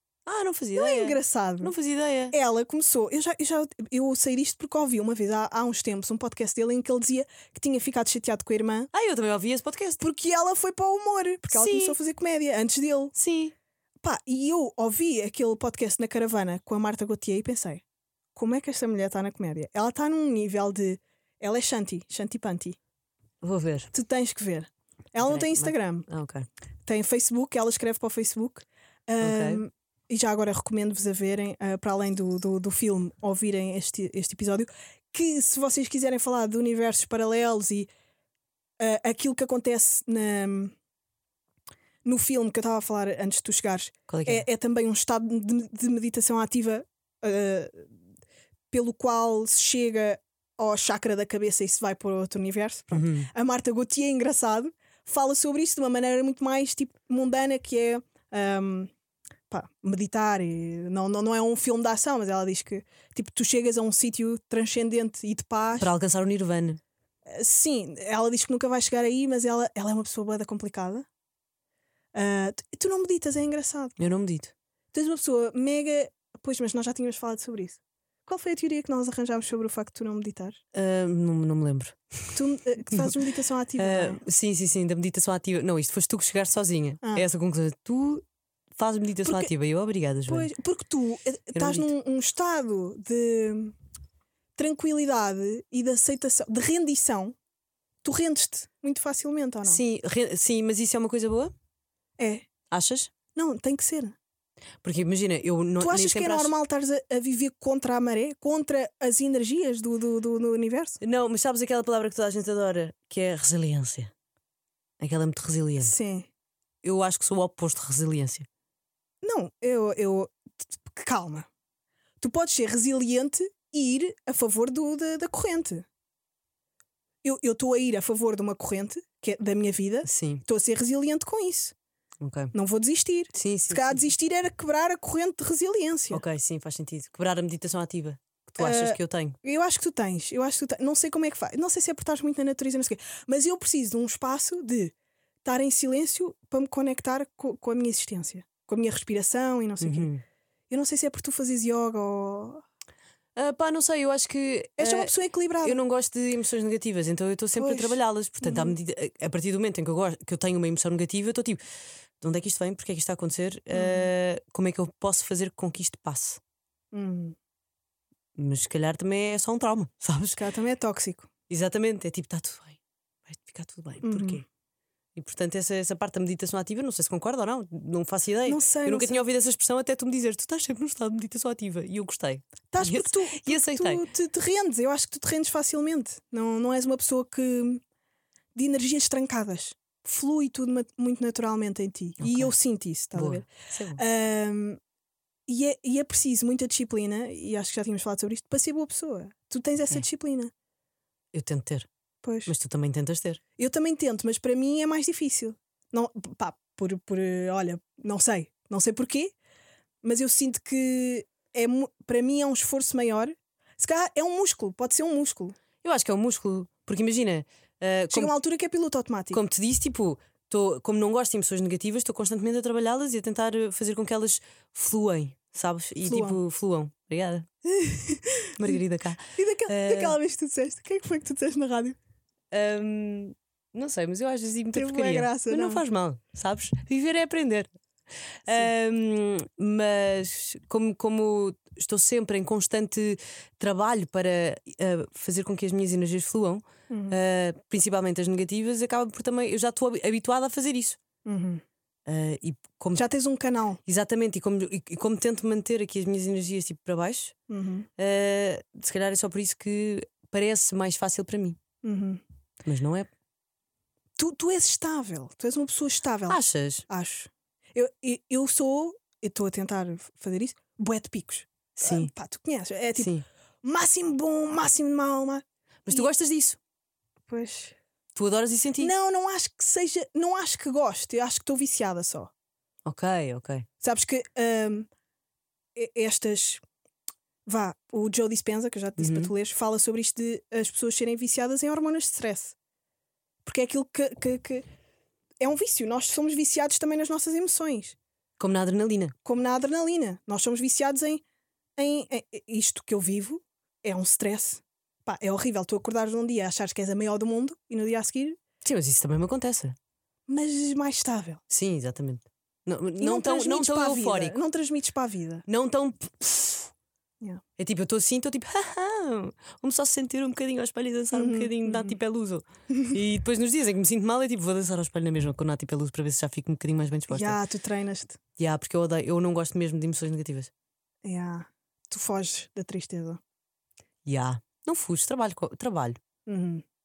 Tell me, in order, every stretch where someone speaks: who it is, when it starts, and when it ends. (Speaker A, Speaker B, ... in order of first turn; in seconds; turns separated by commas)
Speaker A: 0.2-2.3, Speaker B: 0.8-1.7, Speaker B: 2.3-8.9, Speaker A: 8.9-10.0, Speaker B: 10.0-13.1, Speaker A: 11.5-11.9, Speaker A: 13.2-13.5, Speaker B: 14.0-17.8, Speaker B: 18.3-22.8, Speaker A: 23.4-23.9, Speaker B: 23.9-26.1, Speaker A: 25.2-26.4, Speaker B: 26.9-37.9, Speaker A: 29.2-29.6, Speaker B: 38.8-40.7, Speaker B: 42.0-47.9, Speaker A: 44.1-44.4, Speaker B: 48.7-58.9, Speaker A: 52.9-53.3, Speaker B: 59.5-65.9, Speaker A: 65.8-66.8, Speaker B: 67.3-71.1, Speaker B: 72.1-74.0, Speaker A: 74.0-74.5, Speaker B: 74.9-80.6, Speaker A: 80.7-82.3, Speaker B: 82.3-84.2, Speaker A: 82.9-83.2, Speaker A: 83.8-88.2, Speaker A: 88.7-90.5, Speaker B: 89.2-89.5, Speaker B: 90.3-93.7, Speaker A: 91.5-91.9, Speaker B: 94.6-97.3, Speaker B: 98.0-99.8, Speaker A: 99.6-101.5, Speaker B: 102.2-102.5, Speaker A: 102.7-103.1, Speaker B: 103.3-104.2, Speaker A: 104.8-106.5, Speaker B: 105.8-111.0, Speaker A: 111.0-114.1, Speaker A: 115.0-115.9, Speaker B: 115.8-116.3, Speaker A: 116.8-118.5, Speaker B: 119.2-120.3, Speaker B: 120.8-121.5, Speaker B: 122.2-125.8, Speaker B: 127.2-131.7, Speaker A: 130.1-130.4, Speaker A: 132.2-132.5, Speaker B: 132.5-136.2, Speaker A: 133.3-134.1, Speaker A: 136.1-139.3, Speaker B: 138.6-150.1, Speaker A: 149.8-150.2, Speaker B: 150.7-152.6, Speaker A: 153.3-161.6, Speaker B: 154.8-155.8, Speaker B: 157.6-158.8, Speaker A: 162.2-166.4, Speaker B: 163.7-164.1, Speaker B: 166.9-167.3, Speaker A: 168.4-170.4, Speaker B: 170.3-171.3, Speaker A: 171.5-174.4, Speaker B: 174.0-174.4, Speaker A: 175.2-184.0, Speaker B: 178.4-179.2, Speaker B: 182.7-187.8, Speaker B: 188.5-194.8, Speaker A: 192.2-192.5, Speaker A: 193.1-194.0, Speaker B: 195.5-200.5, Speaker A: 201.3-201.9, Speaker B: 202.2-202.5, Speaker A: 202.5-203.4, Speaker B: 203.6-209.3, Speaker B: 210.0-215.6, Speaker A: 215.8-218.3, Speaker B: 218.1-219.4, Speaker A: 219.3-227.4, Speaker B: 226.0-226.4, Speaker B: 227.6-228.8, Speaker A: 228.6-230.2, Speaker B: 229.3-232.0, Speaker A: 232.5-237.7, Speaker B: 234.7-235.8, Speaker A: 238.5-251.0, Speaker B: 246.9-247.2, Speaker B: 251.2-251.6, Speaker A: 252.1-253.0, Speaker B: 252.9-253.8, Speaker A: 253.8-257.4, Speaker B: 257.5-257.9, Speaker A: 258.0-261.6, Speaker B: 261.8-262.2, Speaker A: 262.6-263.1, Speaker B: 264.2-273.1, Speaker A: 266.3-266.9, Speaker A: 271.8-272.1, Speaker A: 273.0-273.2, Speaker B: 273.6-276.1, Speaker A: 275.9-276.6, Speaker B: 277.3-277.8, Speaker A: 278.1-278.9, Speaker B: 278.8-282.3, Speaker A: 282.8-283.6, Speaker B: 283.8-284.9, Speaker B: 285.7-286.6, Speaker B: 287.4-292.5, Speaker A: 289.0-289.3, Speaker B: 293.4-294.6, Speaker B: 295.4-297.9, Speaker A: 298.4-299.1, Speaker B: 299.2-301.2, Speaker B: 301.8-308.4, Speaker A: 308.6-309.8, Speaker B: 310.3-311.4, Speaker A: 311.5-314.4, Speaker B: 313.0-315.4, Speaker A: 315.5-316.7, Speaker A: 317.6-327.4, Speaker B: 321.1-322.0, Speaker B: 327.1-328.2, Speaker A: 328.4-330.5, Speaker B: 331.0-333.2, Speaker A: 334.1-336.0, Speaker B: 336.3-336.6